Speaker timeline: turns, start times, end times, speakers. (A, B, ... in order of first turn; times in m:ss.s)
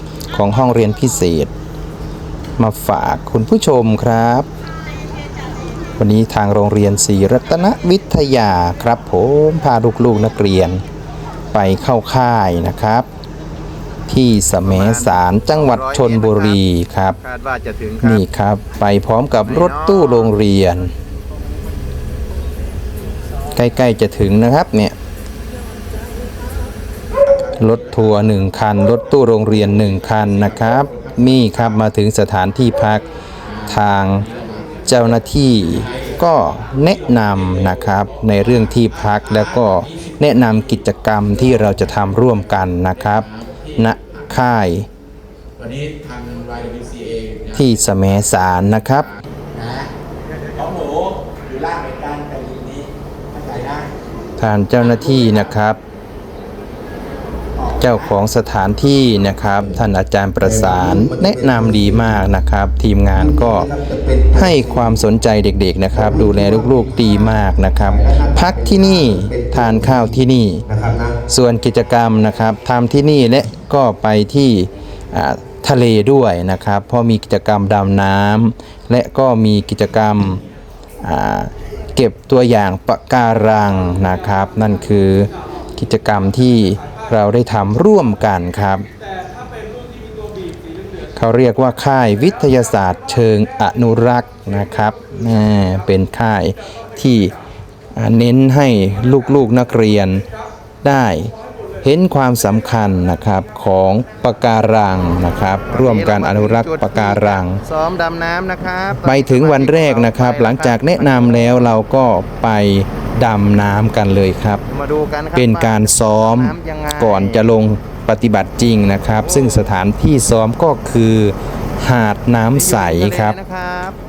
0:00.3-0:01.5 A
0:02.6-0:04.5 A
0:06.0-0:10.8 A
0:11.5-0:13.1 A
0:14.1-0:17.2 A
0:14.6-0:16.6 B
0:17.2-0:18.2 B
0:18.0-0:20.9 A
0:19.4-0:20.3 B
0:23.6-0:25.0 A
0:27.6-0:33.0 A
0:33.6-0:34.3 A
0:34.9-0:44.9 A
0:47.5-0:49.1 A
0:51.5-0:52.8 C
0:53.3-0:53.9 C
0:54.4-0:55.8 A
0:57.8-1:03.7 A
1:00.4-1:02.0 C
1:03.2-1:04.8 C
1:04.3-1:10.6 A
1:05.9-1:10.1 C
1:10.7-1:11.2 C
1:11.3-1:20.4 A
1:21.0-1:28.9 A
1:31.2-1:37.3 A
1:38.0-1:40.2 A
1:40.8-1:47.6 A
1:45.7-1:51.8 B
1:49.0-1:54.6 A
1:54.7-1:57.5 B
1:55.3-2:03.4 A
1:59.2-1:59.7 B
2:02.5-2:04.0 B